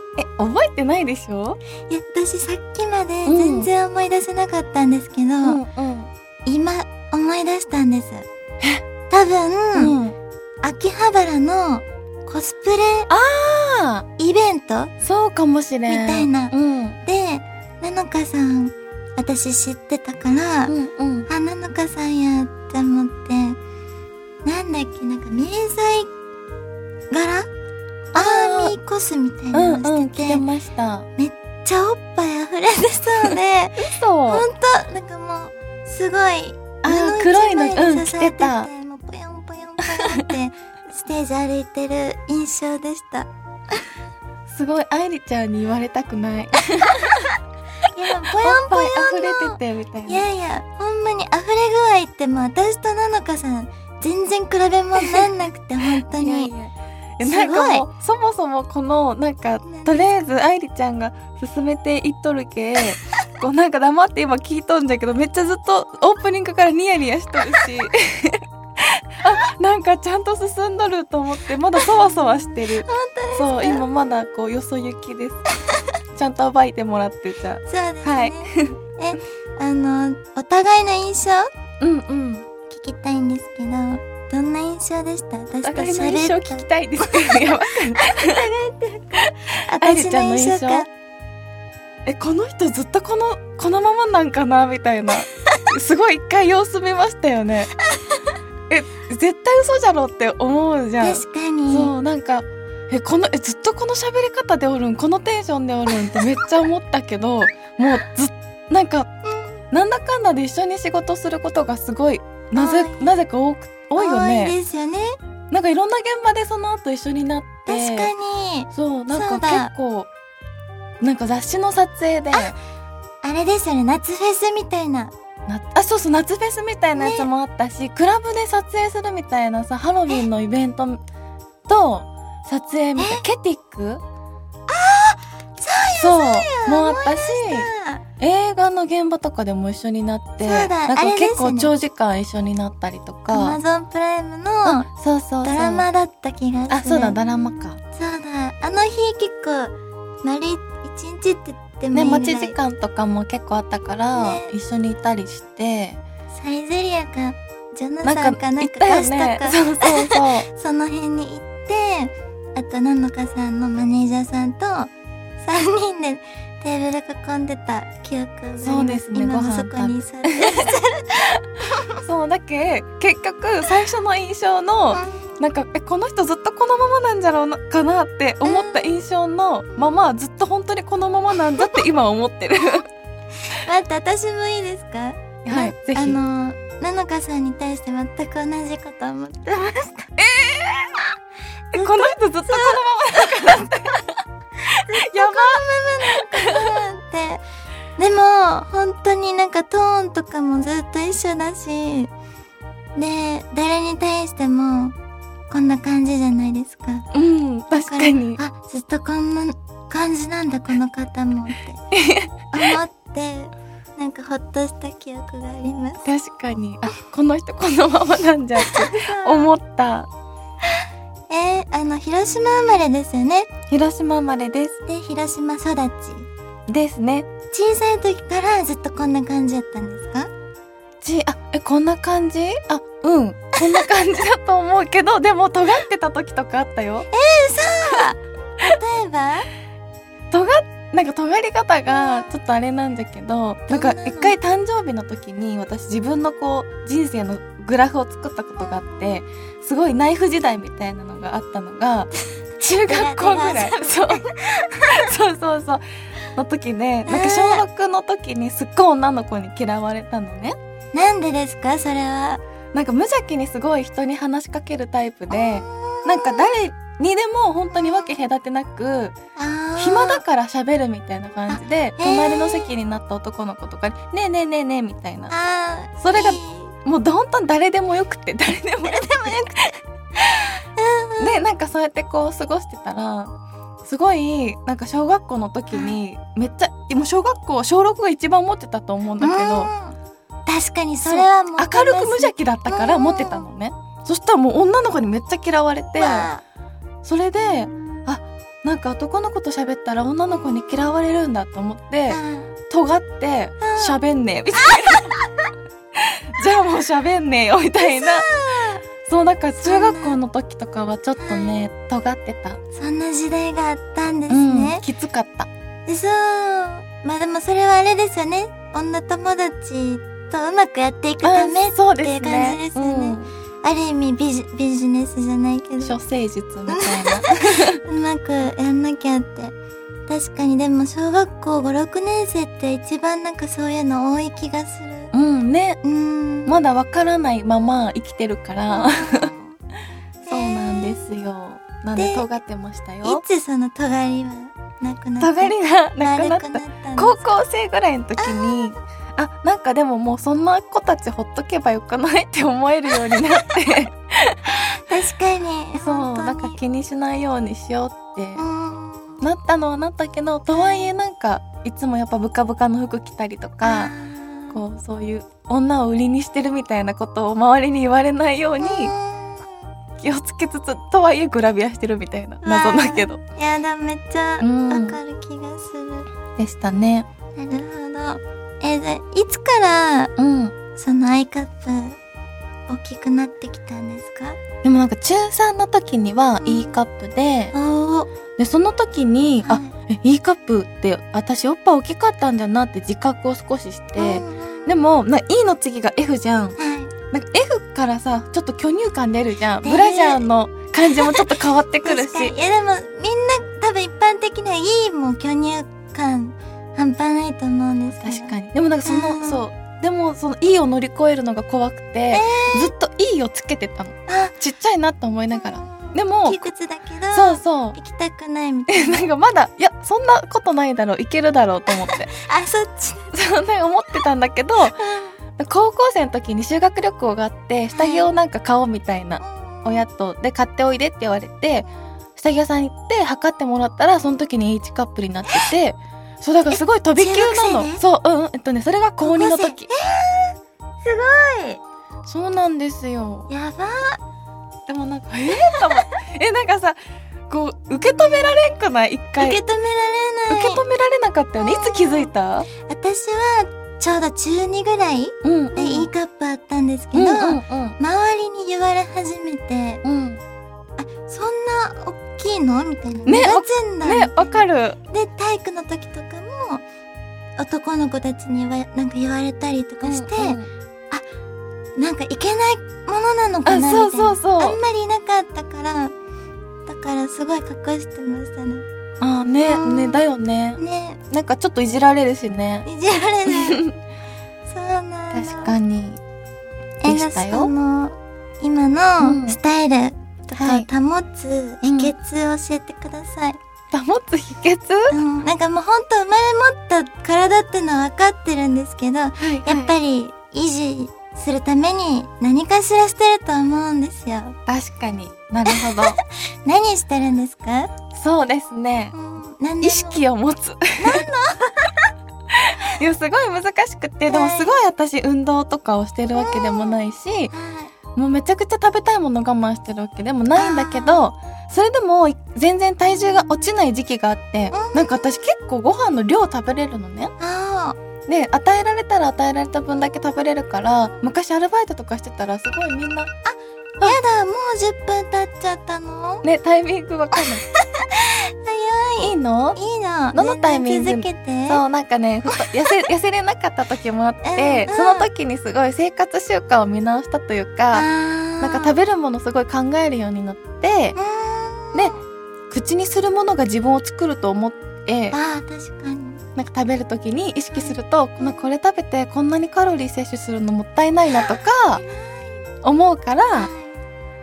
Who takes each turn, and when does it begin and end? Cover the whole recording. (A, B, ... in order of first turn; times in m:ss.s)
0:00.2-0:01.6 A
0:01.9-0:05.6 B
0:03.2-0:03.7 A
0:05.4-0:06.1 A
0:06.4-0:08.2 B
0:09.1-0:09.9 B
0:09.7-0:10.2 A
0:10.6-0:13.1 B
0:13.1-0:14.0 A
0:14.2-0:14.9 B
0:15.0-0:17.0 A
0:15.9-0:16.5 B
0:17.0-0:20.7 B
0:20.7-0:21.3 A
0:21.3-0:23.6 B
0:24.4-0:26.1 B
0:27.1-0:27.5 B
0:28.1-0:30.4 B
0:28.1-0:28.8 A
0:29.5-0:31.1 A
0:31.2-0:43.3 B
0:33.8-0:34.4 A
0:36.8-0:38.7 A
0:40.0-0:40.3 A
0:44.5-0:47.3 A
0:47.9-0:56.5 B
0:48.3-0:50.3 A
0:55.0-0:55.3 A
0:56.1-1:15.4 A
0:57.2-0:57.8 B
0:59.6-1:00.0 B
1:12.7-1:13.8 B
1:16.1-1:18.8 A
1:17.6-1:21.5 B
1:21.8-1:22.4 A
1:22.7-1:27.4 B
1:25.6-1:28.4 A
1:28.0-1:30.9 B
1:29.8-1:30.8 A
1:32.0-1:37.7 A
1:37.9-1:38.2 B
1:38.7-1:49.1 A
1:41.0-1:41.9 B
1:49.2-1:49.6 B
1:49.7-1:54.5 A
1:52.5-1:53.1 B
1:54.0-1:55.2 B
1:55.5-1:58.1 A
1:57.7-1:59.7 B
1:58.7-2:00.1 A
2:01.0-2:02.5 A
2:03.2-2:05.1 B
2:05.5-2:11.0 A
2:07.0-2:07.2 B
2:11.7-2:14.0 A
2:13.0-2:13.2 B
2:14.7-2:18.0 B
2:16.0-2:17.7 A
2:18.2-2:23.6 A
2:20.4-2:21.7 B
2:23.3-2:24.9 B
2:24.6-2:25.9 A
2:25.4-2:27.2 B
2:26.7-2:27.8 A
2:27.9-2:32.5 B
2:31.9-2:36.0 A
2:34.1-2:34.5 B
2:36.3-2:44.9 B
2:38.0-2:40.5 A
2:45.4-2:51.2 B
2:48.6-2:50.7 A
2:52.0-3:02.8 A
2:54.9-2:55.4 B
2:58.4-2:58.9 B
2:59.7-3:00.0 B
3:03.4-3:10.1 B
3:05.4-3:06.2 A
3:10.2-3:11.1 A
3:11.7-3:12.8 B
3:11.7-3:16.8 A
3:13.3-3:13.7 B
3:14.9-3:17.4 B
3:18.0-3:22.1 B
3:23.0-3:24.9 B
3:25.5-3:27.1 B
3:27.1-3:28.4 A
3:27.8-3:31.8 B
3:31.9-3:32.7 A
3:32.5-3:36.0 B
3:36.0-3:40.1 A
3:38.6-3:39.5 B
3:41.3-3:43.5 B
3:43.7-3:44.8 A
3:44.8-3:46.3 B
3:46.7-3:47.3 A
3:47.5-3:50.3 B
3:51.0-3:57.1 A
3:57.1-3:59.5 B
4:00.3-4:20.6 A
4:01.9-4:02.3 B
4:03.7-4:04.4 B
4:08.6-4:09.2 B
4:12.8-4:14.6 B
4:17.0-4:17.6 B
4:20.9-4:22.4 B
4:22.7-4:29.1 A
4:25.3-4:26.5 B
4:27.7-4:28.1 B
4:29.4-4:30.2 B
4:29.8-4:35.3 A
4:31.5-4:32.7 B
4:35.3-4:36.7 B
4:36.0-4:39.7 A
4:38.8-4:39.5 B
4:40.3-4:41.4 B
4:41.2-4:43.3 A
4:43.8-4:49.7 A
4:49.2-4:53.4 B
4:51.0-4:56.3 A
4:56.0-4:56.4 B
4:57.0-5:05.1 A
5:02.1-5:02.5 B
5:03.6-5:04.0 B
5:04.6-5:05.2 B
5:06.0-5:08.3 A
5:07.8-5:08.8 B
5:09.1-5:12.6 A
5:09.6-5:10.2 B
5:11.2-5:11.5 B
5:12.7-5:14.8 B
5:14.3-5:15.5 A
5:15.9-5:26.0 B
5:21.2-5:23.3 A
5:25.8-5:27.8 A
5:26.7-5:27.3 B
5:27.8-5:29.5 B
5:30.1-5:35.1 B
5:35.1-5:35.8 A
5:35.8-5:36.6 B
5:36.4-5:39.3 A
5:38.7-5:39.6 B
5:40.2-5:41.0 B
5:40.3-5:43.2 A
5:42.0-5:42.2 B
5:43.0-5:47.2 B
5:45.2-5:54.6 A
5:48.2-5:48.7 B
5:54.8-5:56.6 B
5:55.8-5:58.4 A
5:58.4-5:59.2 B
5:59.2-6:03.9 A
6:00.5-6:00.9 B
6:03.6-6:04.6 B
6:04.5-6:08.9 A
6:08.6-6:09.7 B
6:10.0-6:13.2 A
6:12.4-6:16.1 B
6:14.4-6:15.0 A
6:16.4-6:17.1 A
6:17.4-6:20.1 B
6:20.2-6:20.5 A
6:20.7-6:22.0 B
6:22.7-6:24.4 B
6:24.6-6:27.5 A
6:26.4-6:26.8 B
6:27.5-6:28.1 B
6:28.4-6:36.6 A
6:29.4-6:29.7 B
6:34.0-6:34.7 B
6:36.6-6:36.9 B
6:37.1-6:42.3 A
6:39.6-6:40.2 B
6:40.9-6:41.2 B
6:41.8-6:49.4 B
6:48.0-6:56.4 A
6:52.1-6:52.7 B
6:54.1-6:54.4 B
6:55.3-6:59.1 B
6:57.1-6:57.8 A
6:58.7-7:02.1 A
7:01.7-7:03.1 B
7:03.1-7:04.8 A
7:04.8-7:05.2 B
7:05.4-7:19.7 A
7:07.7-7:08.1 B
7:09.2-7:09.8 B
7:16.5-7:17.8 B
7:19.0-7:21.6 B
7:22.0-7:23.3 A
7:23.3-7:24.0 B
7:24.7-7:29.4 A
7:25.4-7:25.7 B
7:29.2-7:30.6 B
7:30.3-7:32.5 A
7:31.4-7:32.1 B
7:32.6-7:39.8 B
7:35.2-7:35.9 A
7:36.9-7:37.8 A
7:39.8-7:40.2 A
7:40.8-7:46.6 B
7:43.0-7:44.8 A
7:47.4-7:50.4 B
7:49.8-7:50.5 A
7:51.8-7:55.9 B
7:53.4-7:54.6 A
7:56.7-7:58.6 B
7:59.0-8:02.7 A
7:59.4-8:00.0 B
8:00.6-8:01.0 B
8:02.6-8:03.6 B
8:03.3-8:03.7 A
8:04.4-8:05.5 B
8:05.1-8:06.0 A
8:06.8-8:13.4 B
8:06.8-8:07.5 A
8:09.0-8:09.4 A
8:10.4-8:10.7 A
8:11.6-8:11.9 A
8:13.7-8:14.9 A
8:14.9-8:24.3 B
8:19.2-8:19.7 A
8:24.5-8:26.0 A
8:25.5-8:27.7 B
8:27.9-8:28.9 A
8:28.9-8:30.0 B
8:29.6-8:31.1 A
8:30.8-8:31.9 B
8:32.3-8:37.3 A
8:34.1-8:34.6 B
8:36.2-8:37.7 B
8:37.9-8:47.1 A
8:40.3-8:41.0 B
8:44.5-8:45.2 B
8:47.2-8:47.8 B
8:48.1-8:53.1 A
8:53.2-8:56.2 B
8:56.2-8:57.4 A
8:57.2-9:01.6 B
8:59.0-8:59.6 A
9:00.1-9:07.9 A
9:02.3-9:02.7 B
9:04.2-9:05.1 B
9:07.7-9:08.8 B
9:08.4-9:11.0 A
9:11.0-9:12.0 B
9:12.5-9:15.2 A
9:15.1-9:16.2 B
9:16.4-9:21.8 A
9:17.5-9:18.5 B
9:21.1-9:22.4 B
9:22.6-9:23.5 A
9:23.3-9:23.8 B